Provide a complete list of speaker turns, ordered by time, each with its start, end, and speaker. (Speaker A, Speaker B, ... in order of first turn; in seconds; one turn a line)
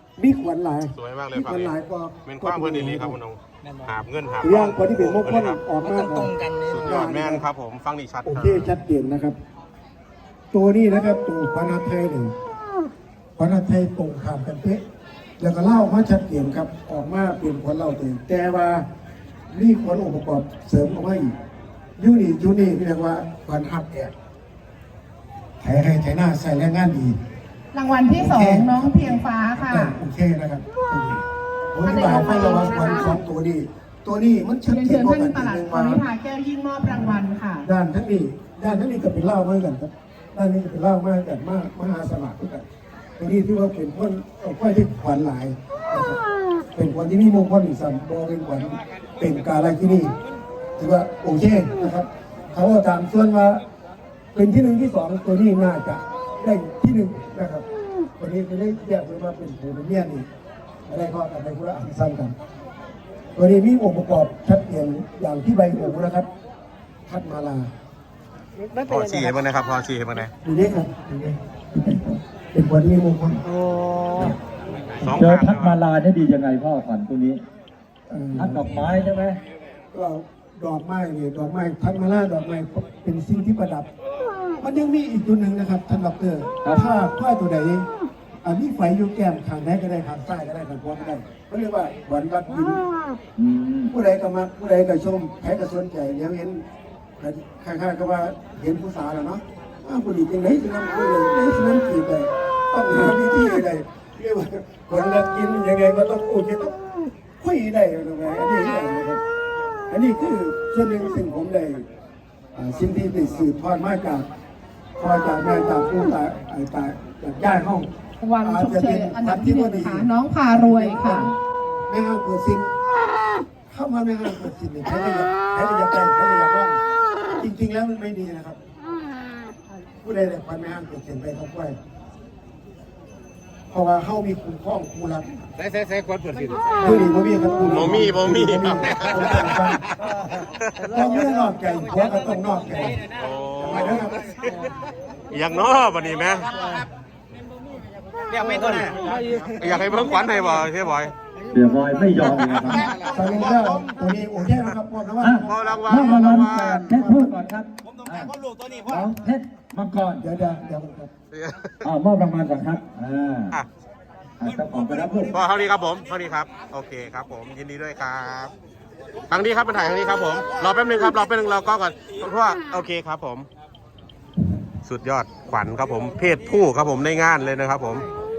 Speaker A: 0.2-3.2
Speaker B: 0.9-1.7
Speaker B: 2.3-5.7
Speaker A: 4.4-7.5
Speaker C: 5.9-6.8
Speaker B: 6.7-8.7
Speaker A: 8.3-9.4
Speaker A: 10.5-12.3
Speaker A: 13.4-14.8
Speaker A: 15.4-18.9
Speaker A: 19.5-21.3
Speaker A: 22.0-24.1
Speaker A: 25.6-27.2
Speaker D: 27.7-30.0
Speaker A: 28.1-31.2
Speaker A: 31.7-36.0
Speaker D: 31.8-33.2
Speaker D: 34.7-37.7
Speaker A: 36.9-42.6
Speaker A: 43.2-46.2
Speaker A: 46.8-50.1
Speaker A: 50.8-53.6
Speaker A: 54.4-57.6
Speaker A: 58.2-60.3
Speaker A: 60.9-62.4
Speaker A: 63.4-66.3
Speaker A: 67.1-67.7
Speaker C: 68.6-69.3
Speaker B: 68.9-70.3
Speaker A: 70.4-73.4
Speaker C: 73.6-74.3
Speaker B: 75.0-75.8
Speaker E: 75.1-77.4
Speaker A: 78.1-78.8
Speaker E: 78.4-79.4
Speaker A: 79.9-83.9
Speaker A: 84.6-87.9
Speaker A: 88.4-92.8
Speaker E: 93.4-93.9
Speaker A: 93.9-96.6
Speaker A: 97.2-106.8
Speaker A: 107.4-109.2
Speaker A: 109.9-111.8
Speaker A: 112.5-114.3
Speaker A: 115.0-117.9
Speaker D: 118.2-121.3
Speaker A: 118.4-121.3
Speaker A: 121.9-122.7
Speaker A: 123.7-126.8
Speaker A: 127.4-128.6
Speaker A: 130.0-131.8
Speaker A: 133.7-135.3
Speaker C: 135.6-136.7
Speaker A: 136.8-139.9
Speaker B: 137.7-139.7
Speaker B: 140.4-141.0
Speaker A: 140.9-143.0
Speaker B: 143.1-144.7
Speaker A: 143.6-144.3
Speaker B: 145.3-146.7
Speaker C: 146.6-146.8
Speaker C: 148.3-149.7
Speaker B: 148.5-151.2
Speaker E: 151.5-152.9
Speaker B: 152.5-153.6
Speaker A: 153.0-155.5
Speaker E: 155.2-158.3
Speaker B: 155.4-156.9
Speaker A: 156.9-157.3
Speaker E: 158.9-160.2
Speaker A: 160.2-161.1
Speaker B: 161.3-161.7
Speaker E: 161.8-163.6
Speaker E: 164.4-165.4
Speaker B: 165.3-168.5
Speaker B: 169.3-173.5
Speaker B: 174.8-178.1